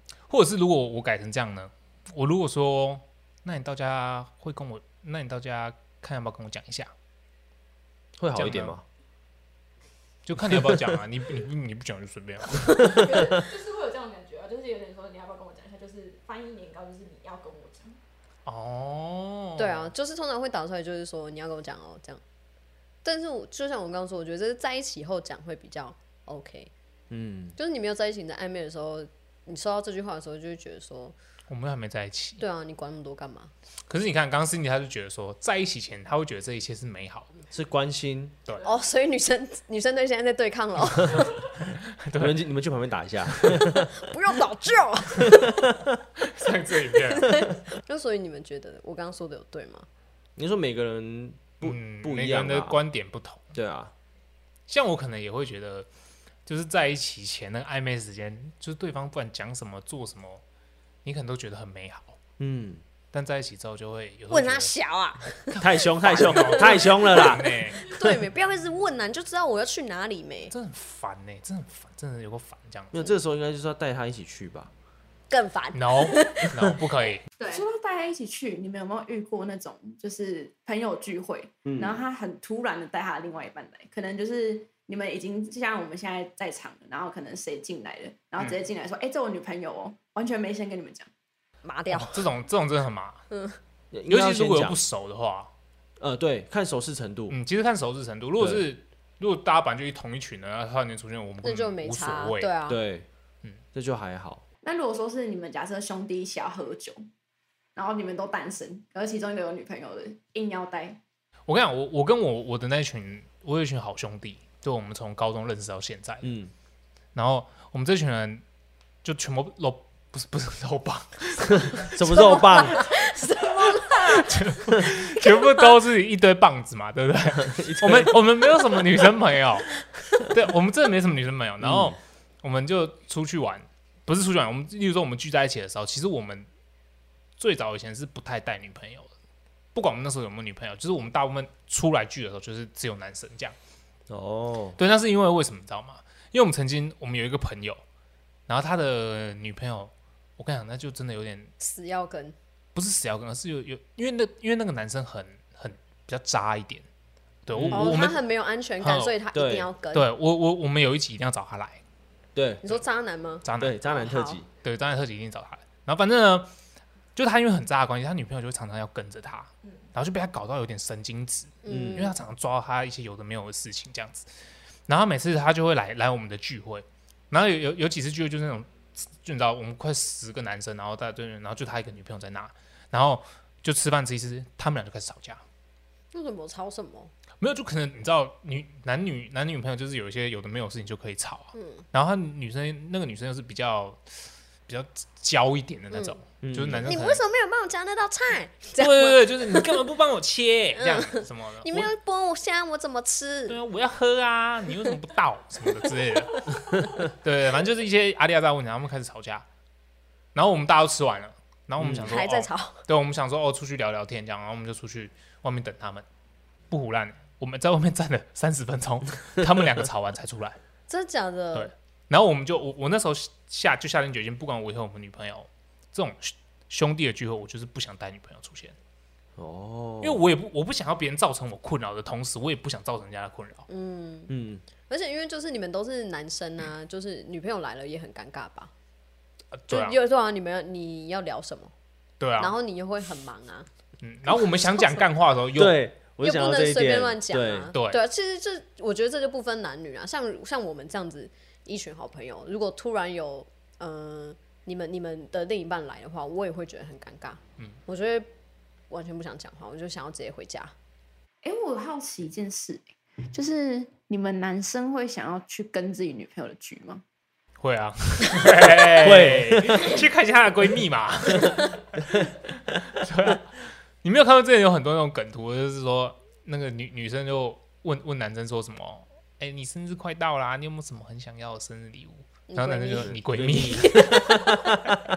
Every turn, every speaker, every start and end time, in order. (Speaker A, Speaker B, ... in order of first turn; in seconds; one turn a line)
Speaker A: 0.3-6.9
Speaker B: 8.2-8.8
Speaker A: 8.3-8.8
Speaker A: 10.2-13.0
Speaker B: 10.4-10.9
Speaker C: 12.8-18.0
Speaker B: 12.8-13.4
Speaker A: 18.5-19.9
Speaker D: 19.6-22.2
Speaker D: 23.0-26.7
Speaker B: 27.1-27.6
Speaker D: 27.6-31.2
Speaker A: 31.5-32.4
Speaker D: 32.4-33.5
Speaker A: 33.9-37.3
Speaker B: 37.5-38.4
Speaker D: 38.6-41.3
Speaker A: 41.7-42.4
Speaker B: 42.2-43.9
Speaker D: 43.7-45.5
Speaker B: 45.3-45.9
Speaker A: 46.2-47.5
Speaker D: 47.1-49.9
Speaker B: 50.4-52.8
Speaker A: 51.6-53.5
Speaker B: 53.5-53.9
Speaker A: 54.7-55.9
Speaker A: 56.5-60.4
Speaker A: 61.0-62.2
Speaker B: 62.4-62.8
Speaker A: 63.1-64.7
Speaker D: 64.3-67.3
Speaker A: 65.5-67.8
Speaker B: 65.6-68.2
Speaker D: 67.8-70.5
Speaker A: 70.5-73.0
Speaker B: 72.9-74.7
Speaker D: 75.3-76.5
Speaker A: 75.7-77.3
Speaker E: 77.5-91.1
Speaker B: 81.7-82.0
Speaker D: 91.6-92.3
Speaker A: 91.9-93.2
Speaker D: 93.3-93.6
Speaker B: 93.9-94.8
Speaker A: 94.1-95.5
Speaker B: 96.0-97.4
Speaker A: 97.3-102.5
Speaker B: 98.4-98.7
Speaker D: 101.4-102.8
Speaker B: 102.7-103.1
Speaker B: 103.7-104.4
Speaker E: 104.6-107.0
Speaker E: 107.8-111.0
Speaker A: 111.5-116.3
Speaker B: 116.2-116.5
Speaker A: 117.2-118.4
Speaker A: 119.0-121.9
Speaker B: 121.7-122.8
Speaker D: 122.1-125.4
Speaker A: 123.6-129.7
Speaker B: 127.4-128.2
Speaker A: 130.2-136.5
Speaker B: 131.6-132.0
Speaker A: 137.4-139.1
Speaker A: 139.8-143.6
Speaker B: 144.1-144.8
Speaker A: 144.8-147.8
Speaker A: 148.5-151.5
Speaker D: 151.6-152.3
Speaker A: 152.8-156.8
Speaker A: 157.5-158.2
Speaker B: 157.5-158.1
Speaker D: 157.7-160.1
Speaker A: 158.8-159.2
Speaker B: 159.3-159.7
Speaker A: 159.9-161.8
Speaker B: 162.3-162.6
Speaker D: 162.6-164.4
Speaker A: 163.4-163.8
Speaker B: 163.6-164.5
Speaker A: 164.6-166.5
Speaker A: 167.2-174.3
Speaker D: 171.6-172.2
Speaker B: 171.7-172.1
Speaker A: 174.9-185.4
Speaker D: 186.1-187.1
Speaker A: 187.4-197.2
Speaker D: 191.6-191.8
Speaker D: 195.9-196.2
Speaker B: 196.4-196.9
Speaker D: 196.9-199.7
Speaker A: 198.8-201.9
Speaker D: 200.8-203.6
Speaker A: 203.5-209.4
Speaker A: 210.3-216.1
Speaker B: 211.8-212.2
Speaker D: 212.1-212.8
Speaker A: 216.7-220.6
Speaker D: 220.9-221.7
Speaker A: 221.6-228.8
Speaker B: 229.4-230.2
Speaker A: 230.0-233.7
Speaker D: 233.7-234.3
Speaker B: 234.3-234.6
Speaker D: 234.9-238.7
Speaker A: 239.6-240.0
Speaker D: 239.7-241.7
Speaker A: 242.2-242.6
Speaker D: 242.4-243.7
Speaker A: 244.0-245.8
Speaker D: 244.3-245.0
Speaker B: 245.6-247.7
Speaker D: 246.2-258.3
Speaker A: 247.7-248.0
Speaker D: 258.9-260.7
Speaker E: 261.4-267.0
Speaker A: 267.6-284.5
Speaker B: 268.6-269.9
Speaker D: 282.5-283.2
Speaker B: 283.0-284.9